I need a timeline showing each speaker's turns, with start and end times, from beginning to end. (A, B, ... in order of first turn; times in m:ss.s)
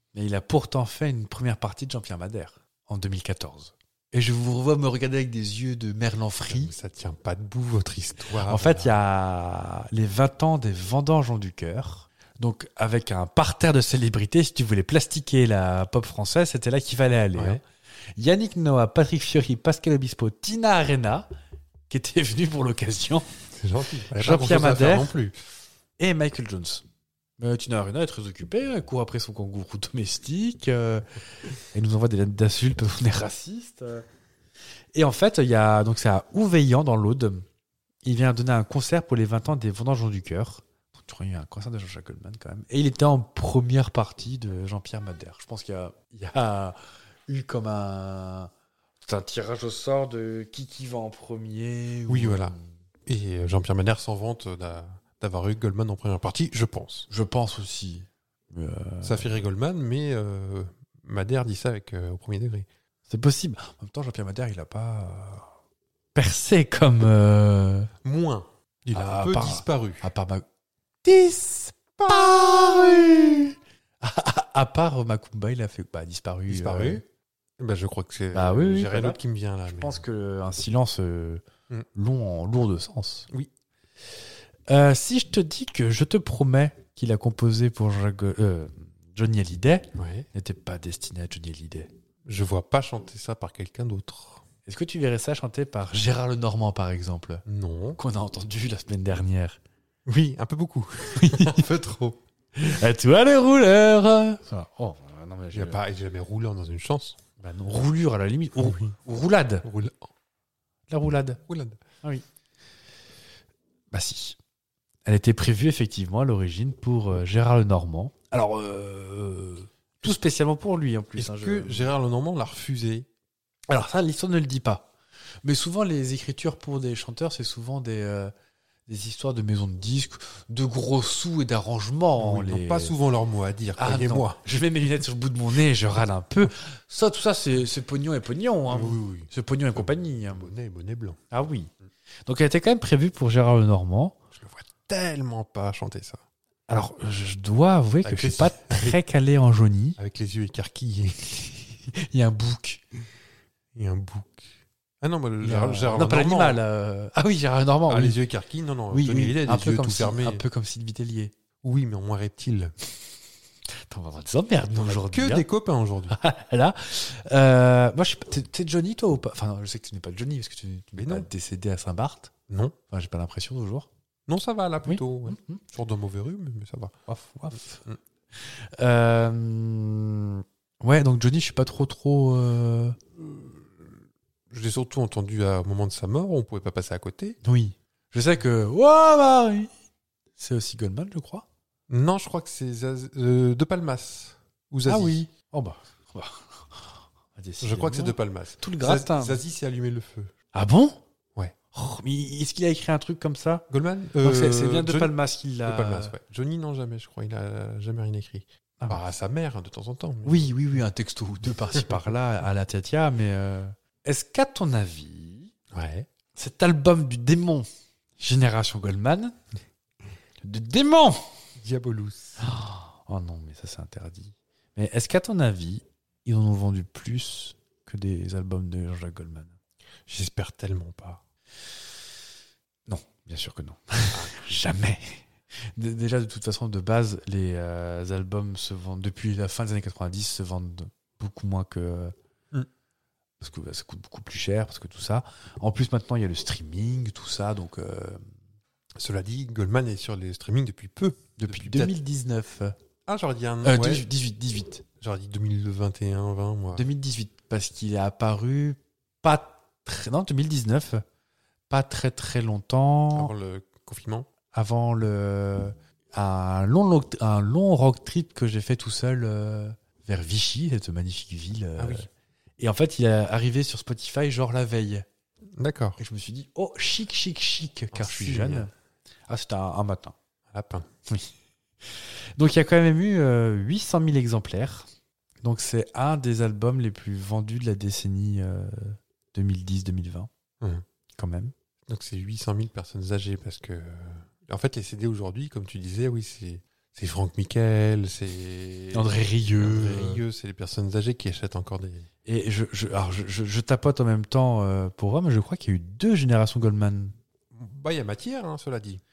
0:00.1-0:06.7 A
0:06.5-0:08.9 B
0:08.4-0:17.6 A
0:17.3-0:17.6 B
0:18.2-0:21.3 A
0:21.9-0:23.2 A
0:23.6-0:25.4 B
0:24.2-0:25.1 A
0:26.0-0:26.8 A
0:27.4-0:31.0 A
0:31.7-0:34.0 A
0:34.9-0:37.4 A
0:38.0-0:48.5 A
0:49.0-0:52.7 A
0:52.1-0:57.1 B
0:57.1-0:59.3 A
0:59.0-1:02.7 B
1:03.1-1:05.5 A
1:06.1-1:07.9 A
1:08.0-1:10.1 B
1:08.9-1:10.4 A
1:11.0-1:17.0 A
1:12.0-1:13.3 B
1:16.5-1:17.0 B
1:17.6-1:20.0 B
1:18.3-1:23.3 A
1:24.7-1:31.9 A
1:30.0-1:30.3 B
1:32.2-1:34.4 B
1:34.6-1:37.4 A
1:37.4-1:38.0 B
1:38.0-1:39.6 A
1:40.0-1:42.2 B
1:41.2-1:41.6 A
1:42.6-1:45.8 A
1:45.5-1:47.2 B
1:47.4-1:49.6 A
1:48.6-1:49.0 B
1:49.6-1:50.1 B
1:50.9-1:51.4 A
1:51.5-1:51.8 B
1:53.9-1:54.4 A
1:55.0-2:01.9 A
2:01.2-2:03.1 B
2:03.7-2:04.9 A
2:05.4-2:08.3 A
2:08.9-2:12.9 A
2:12.2-2:14.4 B
2:13.8-2:20.5 A
2:18.7-2:21.2 B
2:21.3-2:21.7 A
2:22.2-2:24.2 A
2:24.3-2:26.2 B
2:26.7-2:30.0 A
2:28.0-2:29.0 B
2:30.0-2:31.5 B
2:31.8-2:32.8 A
2:33.7-2:34.5 B
2:35.0-2:36.6 B
2:35.4-2:38.2 A
2:37.9-2:40.4 B
2:38.9-2:41.3 A
2:41.6-2:42.7 B
2:43.9-2:45.4 A
2:44.7-2:46.2 B
2:46.1-2:52.3 A
2:51.0-2:51.3 B
2:52.5-2:52.8 B
2:52.9-2:53.9 A
2:54.3-2:57.0 B
2:54.8-2:55.6 A
2:57.1-2:57.8 A
2:58.4-3:03.0 A
3:03.2-3:03.9 B
3:04.5-3:07.4 B
3:07.4-3:09.7 A
3:10.4-3:11.4 A
3:11.9-3:15.2 B
3:14.8-3:19.4 A
3:17.6-3:20.3 B
3:20.5-3:21.0 A
3:21.7-3:23.6 A
3:23.7-3:30.5 B
3:24.2-3:26.2 A
3:30.2-3:35.5 A
3:35.7-3:36.1 B
3:36.3-3:37.7 A
3:38.2-3:39.4 A
3:40.4-3:41.2 A
3:41.6-3:42.4 B
3:42.4-3:49.5 A
3:50.1-3:51.2 B
3:52.9-4:02.1 A
3:54.1-3:54.4 B
4:03.4-4:08.2 A
4:09.0-4:11.9 B
4:11.4-4:12.7 A
4:13.1-4:14.1 B
4:13.6-4:14.8 A
4:15.0-4:16.8 B
4:16.8-4:21.0 A
4:21.7-4:23.3 A
4:23.1-4:24.3 B
4:24.5-4:32.1 A
4:31.8-4:32.1 B
4:32.6-4:35.0 A
4:35.6-4:36.0 B
4:36.0-4:38.7 A
4:37.9-4:38.7 B
4:39.3-4:40.2 A
4:40.5-4:40.9 B
4:41.9-4:44.9 A
4:45.4-4:50.3 A
4:51.2-4:51.5 A
4:51.9-5:02.1 B
4:58.9-5:00.2 A
5:02.2-5:07.1 A
5:07.5-5:09.0 B